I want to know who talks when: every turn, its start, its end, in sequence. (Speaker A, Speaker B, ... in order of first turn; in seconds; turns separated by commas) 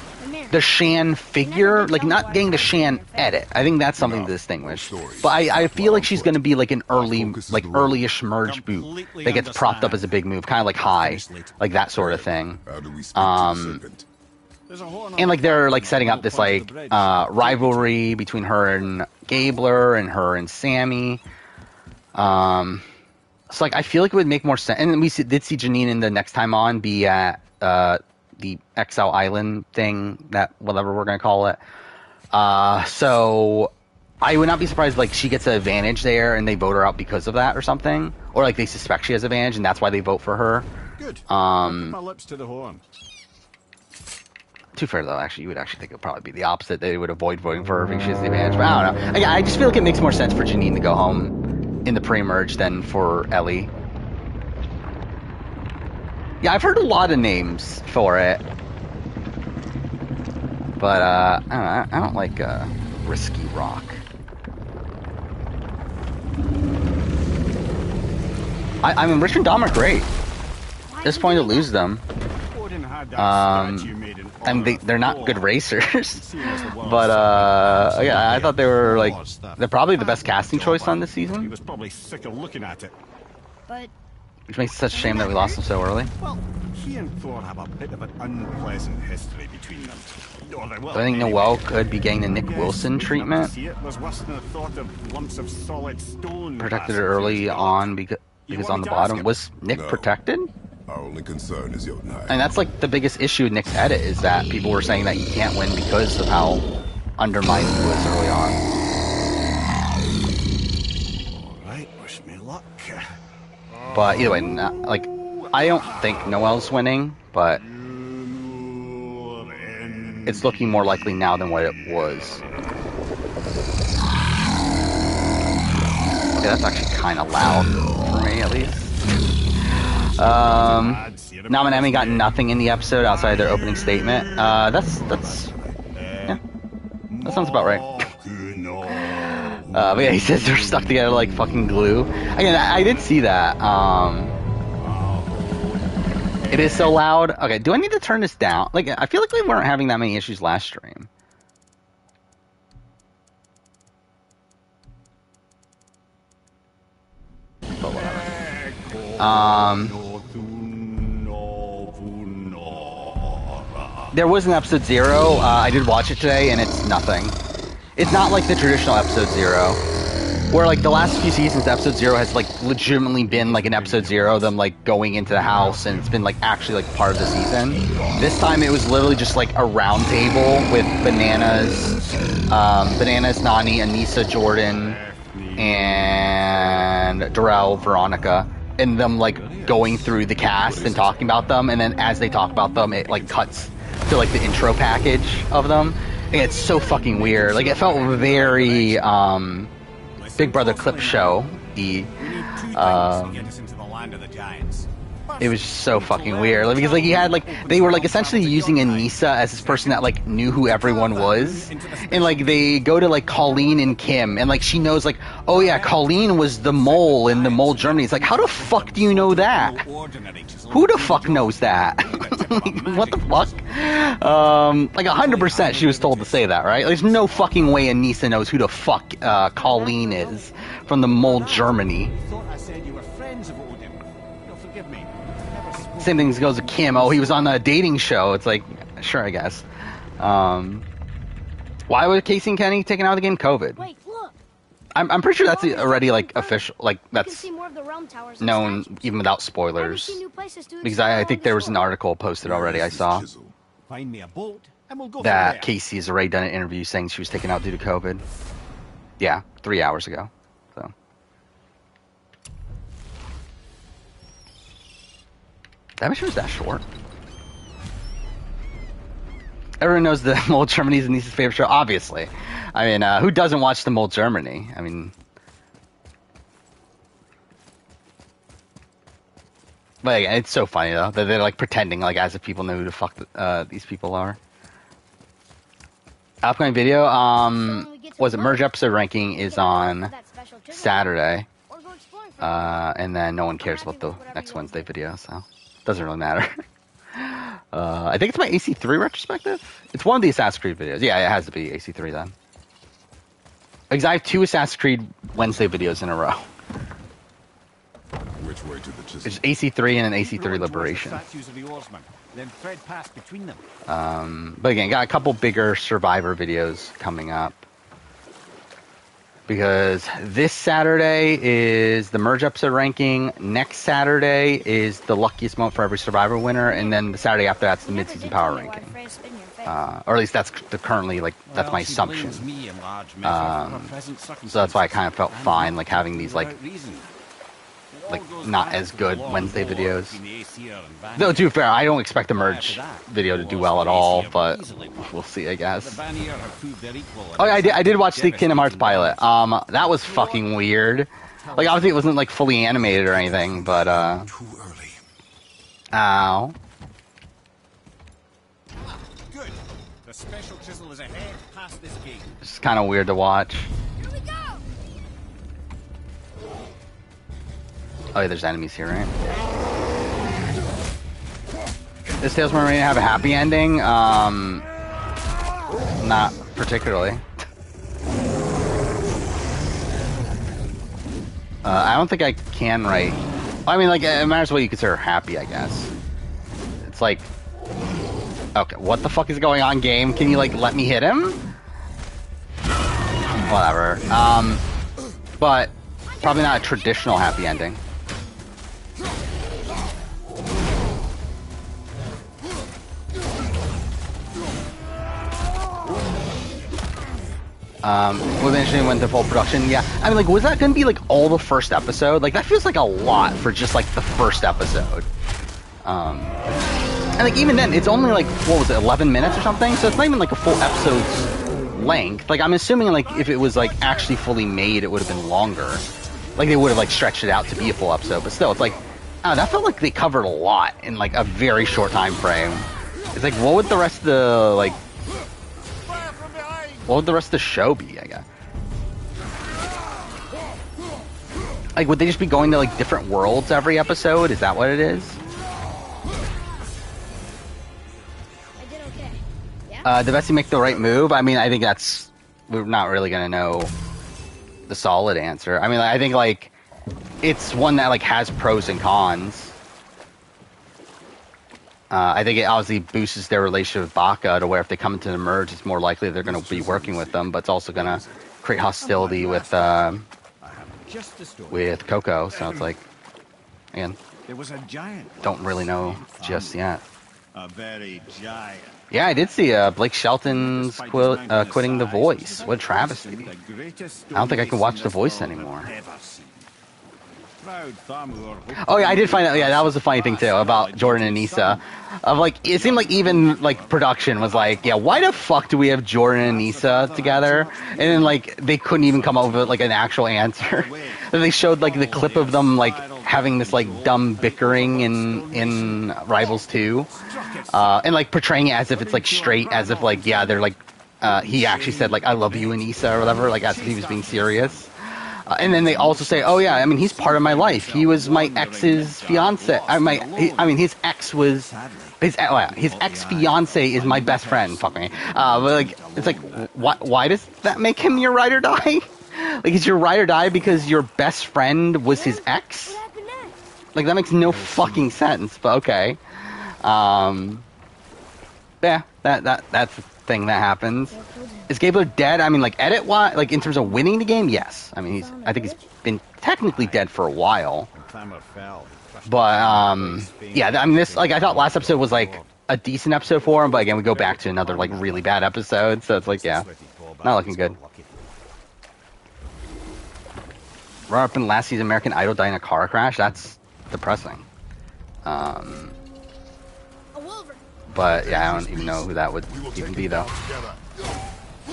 Speaker A: 0.2-0.7, Speaker B: 0.5-12.6, Speaker A: 1.4-3.5, Speaker C: 4.0-8.1, Speaker D: 8.4-11.6, Speaker C: 11.9-14.1, Speaker B: 13.1-13.8, Speaker D: 14.7-18.1, Speaker B: 15.2-21.2, Speaker B: 22.1-22.8, Speaker B: 23.5-31.6, Speaker B: 32.3-40.7, Speaker D: 41.0-42.8, Speaker B: 41.3-42.0, Speaker B: 44.7-53.7, Speaker B: 56.4-58.4, Speaker B: 60.8-64.0, Speaker B: 68.8-70.1, Speaker A: 70.9-71.8, Speaker B: 71.0-72.0, Speaker D: 72.5-75.5, Speaker B: 73.2-81.5, Speaker D: 76.1-82.9, Speaker B: 84.5-86.1, Speaker A: 84.9-85.6, Speaker D: 86.1-97.9, Speaker B: 90.9-93.5, Speaker B: 96.6-100.5, Speaker D: 98.5-99.4, Speaker C: 99.7-100.1, Speaker C: 100.9-102.5, Speaker B: 102.3-106.7, Speaker B: 107.2-108.6, Speaker D: 111.3-113.1, Speaker D: 113.7-116.4, Speaker B: 113.9-117.6, Speaker D: 117.6-121.8, Speaker B: 120.2-122.4, Speaker B: 126.4-128.9, Speaker B: 129.6-135.5, Speaker D: 130.2-136.4, Speaker D: 137.1-141.0, Speaker B: 137.2-138.1, Speaker B: 138.9-144.4, Speaker D: 144.8-145.8, Speaker D: 146.4-147.0, Speaker B: 146.5-151.1, Speaker B: 157.8-158.3, Speaker D: 157.9-164.1, Speaker B: 159.2-160.0, Speaker B: 164.1-167.3, Speaker B: 167.9-169.8, Speaker B: 170.5-185.0, Speaker D: 173.3-174.6, Speaker D: 175.3-176.2, Speaker D: 184.7-188.1, Speaker B: 185.6-199.7, Speaker D: 189.2-191.4, Speaker C: 190.7-191.1, Speaker D: 193.1-194.5, Speaker D: 196.6-199.1, Speaker D: 200.2-201.5, Speaker B: 200.4-202.2, Speaker D: 202.1-212.9, Speaker B: 202.7-203.5, Speaker B: 205.4-219.8, Speaker D: 215.5-224.6, Speaker B: 220.7-232.1, Speaker D: 225.1-227.7, Speaker D: 229.6-237.7, Speaker B: 236.0-239.6, Speaker B: 240.2-240.9, Speaker B: 241.9-243.9, Speaker A: 243.8-244.3, Speaker B: 244.9-247.5, Speaker A: 245.3-246.7, Speaker A: 247.2-249.2, Speaker B: 248.4-250.2, Speaker A: 249.8-251.9, Speaker B: 250.8-253.2, Speaker C: 252.4-253.5, Speaker D: 253.9-255.7, Speaker B: 255.2-258.2, Speaker B: 259.2-260.9, Speaker B: 266.0-266.8, Speaker B: 269.8-275.1, Speaker B: 280.0-284.4, Speaker B: 286.4-290.1, Speaker A: 287.5-292.9, Speaker B: 290.7-291.5, Speaker B: 292.4-296.6, Speaker A: 293.6-294.9, Speaker B: 297.1-302.3, Speaker B: 303.9-306.5, Speaker C: 308.3-309.4, Speaker B: 309.2-311.2, Speaker D: 310.1-313.6, Speaker B: 313.9-317.7, Speaker B: 319.5-328.9, Speaker A: 326.6-329.8, Speaker B: 329.6-332.4, Speaker D: 331.5-337.1, Speaker B: 333.2-333.9, Speaker B: 334.5-336.6, Speaker D: 337.9-341.6, Speaker B: 338.1-340.2, Speaker B: 341.1-346.0, Speaker D: 342.3-345.1, Speaker D: 345.7-350.6, Speaker B: 347.4-354.3, Speaker D: 351.4-355.0, Speaker B: 355.9-356.6, Speaker D: 358.8-362.3, Speaker B: 362.4-363.7, Speaker A: 364.0-364.6, Speaker B: 368.1-369.1, Speaker B: 372.2-374.6, Speaker B: 376.0-377.2, Speaker B: 381.6-385.9, Speaker B: 386.8-387.3, Speaker B: 388.5-391.4, Speaker B: 393.4-394.6, Speaker B: 395.4-397.8, Speaker A: 396.0-397.8, Speaker B: 407.8-415.1, Speaker B: 415.8-416.4, Speaker B: 417.2-425.8, Speaker D: 423.1-424.4, Speaker B: 426.4-434.8, Speaker B: 436.9-438.2, Speaker B: 441.8-445.2, Speaker A: 448.6-449.9, Speaker B: 449.8-453.7, Speaker B: 454.7-456.5, Speaker B: 457.2-459.5, Speaker B: 461.9-470.1, Speaker C: 466.2-468.3, Speaker D: 468.8-472.6, Speaker B: 471.5-472.8, Speaker B: 473.7-474.0, Speaker D: 474.2-476.7, Speaker B: 475.2-476.8, Speaker D: 477.3-478.8, Speaker B: 478.9-483.3, Speaker D: 480.2-486.4, Speaker B: 484.1-485.7, Speaker D: 487.4-491.6, Speaker B: 488.6-532.8, Speaker D: 492.5-495.3, Speaker D: 496.1-498.2, Speaker D: 498.8-508.0, Speaker D: 508.7-510.5, Speaker D: 511.0-514.7, Speaker D: 515.4-520.7, Speaker D: 521.3-526.9, Speaker D: 527.5-528.1, Speaker A: 531.9-533.4, Speaker B: 533.7-536.0, Speaker D: 534.2-535.0, Speaker B: 536.6-537.4, Speaker B: 538.6-541.0, Speaker A: 540.9-541.5, Speaker B: 541.5-547.7, Speaker A: 543.4-543.9, Speaker A: 544.8-545.7, Speaker D: 546.4-546.9, Speaker D: 547.7-552.3, Speaker B: 549.0-556.5, Speaker D: 553.2-558.1, Speaker B: 557.0-557.5, Speaker B: 560.9-564.3, Speaker B: 565.0-565.8, Speaker A: 566.9-567.4, Speaker B: 567.7-570.1, Speaker C: 567.8-570.7